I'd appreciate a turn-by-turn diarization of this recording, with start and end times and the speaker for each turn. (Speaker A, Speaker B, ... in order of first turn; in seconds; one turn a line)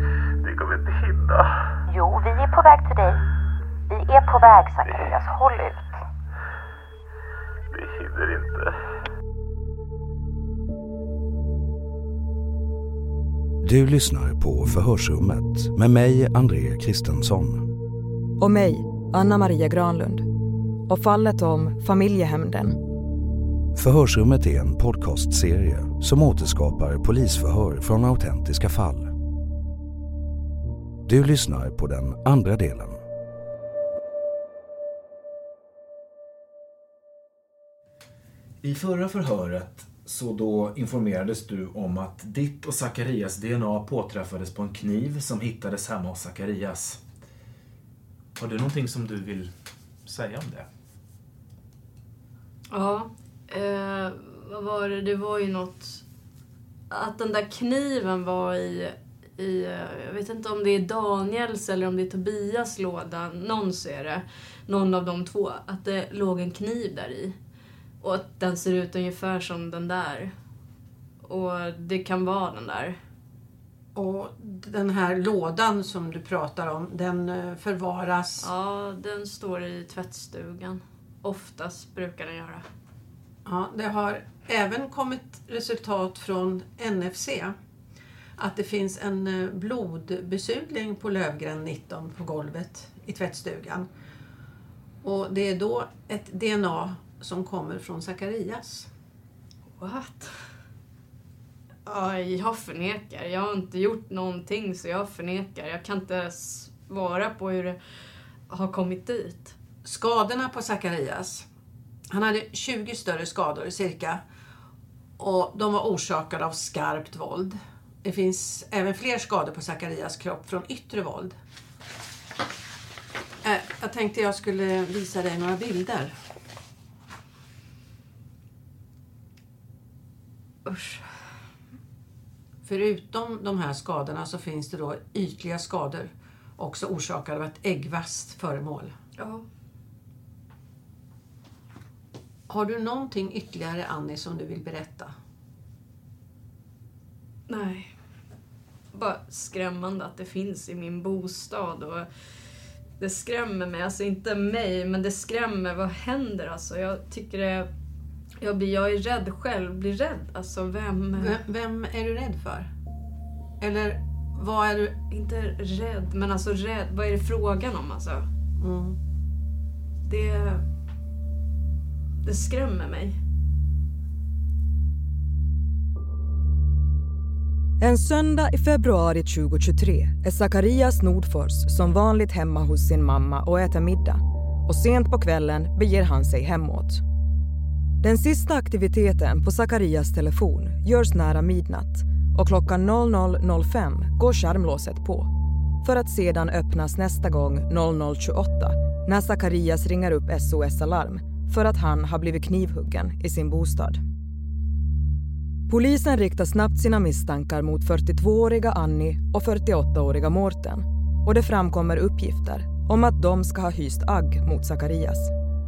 Speaker A: 0.4-1.5
Speaker B: 1.9-3.2
Speaker B: 3.9-6.0
Speaker A: 7.7-8.7
Speaker C: 13.6-17.7
Speaker D: 18.4-20.3
Speaker D: 20.9-22.8
Speaker C: 23.7-29.1
Speaker C: 31.1-33.0
Speaker E: 38.6-47.0
Speaker E: 48.4-49.5
Speaker E: 50.0-50.7
Speaker F: 52.7-56.0
Speaker F: 56.9-67.3
Speaker F: 68.0-70.3
Speaker F: 71.2-73.0
Speaker G: 73.9-78.5
Speaker F: 78.4-82.6
Speaker G: 83.4-87.5
Speaker G: 88.4-93.9
Speaker G: 95.0-98.9
Speaker F: 99.8-100.3
Speaker F: 101.8-107.8
Speaker F: 108.5-109.5
Speaker G: 109.8-111.5
Speaker G: 112.1-114.2
Speaker G: 115.2-121.3
Speaker G: 123.4-126.1
Speaker F: 130.7-131.0
Speaker G: 132.6-138.9
Speaker F: 139.2-139.4
Speaker G: 142.5-145.1
Speaker F: 147.5-147.9
Speaker F: 148.9-152.1
Speaker F: 153.0-157.7
Speaker F: 158.4-161.4
Speaker G: 161.2-162.7
Speaker G: 163.6-164.9
Speaker F: 165.1-168.3
Speaker G: 168.6-169.0
Speaker F: 170.1-170.6
Speaker F: 172.2-173.2
Speaker D: 177.8-187.0
Speaker D: 188.0-195.3
Speaker D: 195.8-204.0
Speaker D: 205.7-215.3